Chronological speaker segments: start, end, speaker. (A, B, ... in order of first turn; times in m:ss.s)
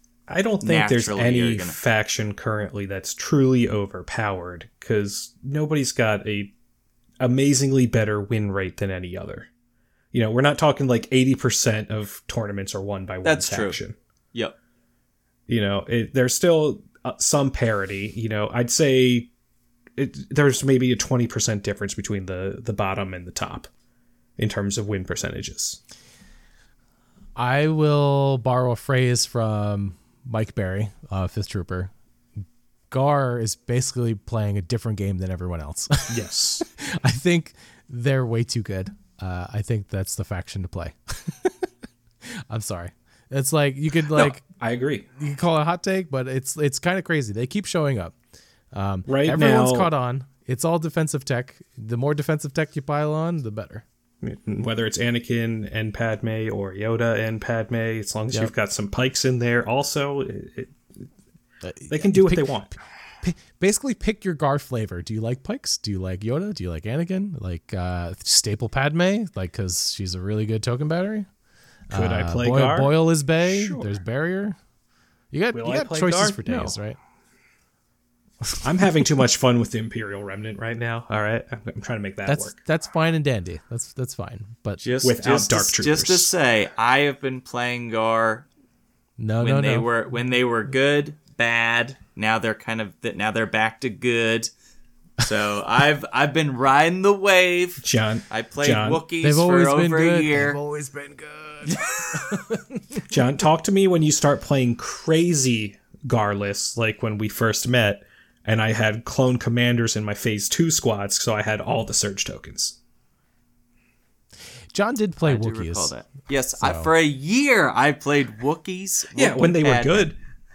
0:00.3-0:06.5 A
0:00.6-0:01.8 B
0:07.2-0:09.5 A
0:10.1-0:14.0 A
0:13.2-0:13.8 B
0:15.5-0:19.3 A
0:20.0-0:23.7 A
0:24.4-0:25.8 A
0:27.4-0:31.9 C
0:32.9-0:41.7 C
0:36.1-0:36.6 A
0:42.3-0:44.4 C
0:44.2-0:45.0 A
0:45.2-0:48.2 C
0:48.7-0:53.8 C
0:49.1-0:49.9 A
0:54.2-1:00.8 A
1:01.6-1:02.7 C
1:01.9-1:02.7 A
1:03.2-1:11.3 C
1:11.9-1:14.6 C
1:11.9-1:13.9 A
1:15.3-1:17.0 C
1:15.5-1:16.8 A
1:18.6-1:22.6 A
1:22.2-1:24.8 C
1:24.8-1:28.5 B
1:25.0-1:26.3 A
1:29.2-1:29.9 C
1:29.4-1:34.5 B
1:35.2-1:40.6 B
1:37.8-1:39.0 A
1:39.2-1:43.0 C
1:43.1-1:52.8 A
1:54.7-1:55.9 C
1:55.2-2:00.1 B
1:56.6-1:56.9 C
1:59.1-2:00.2 A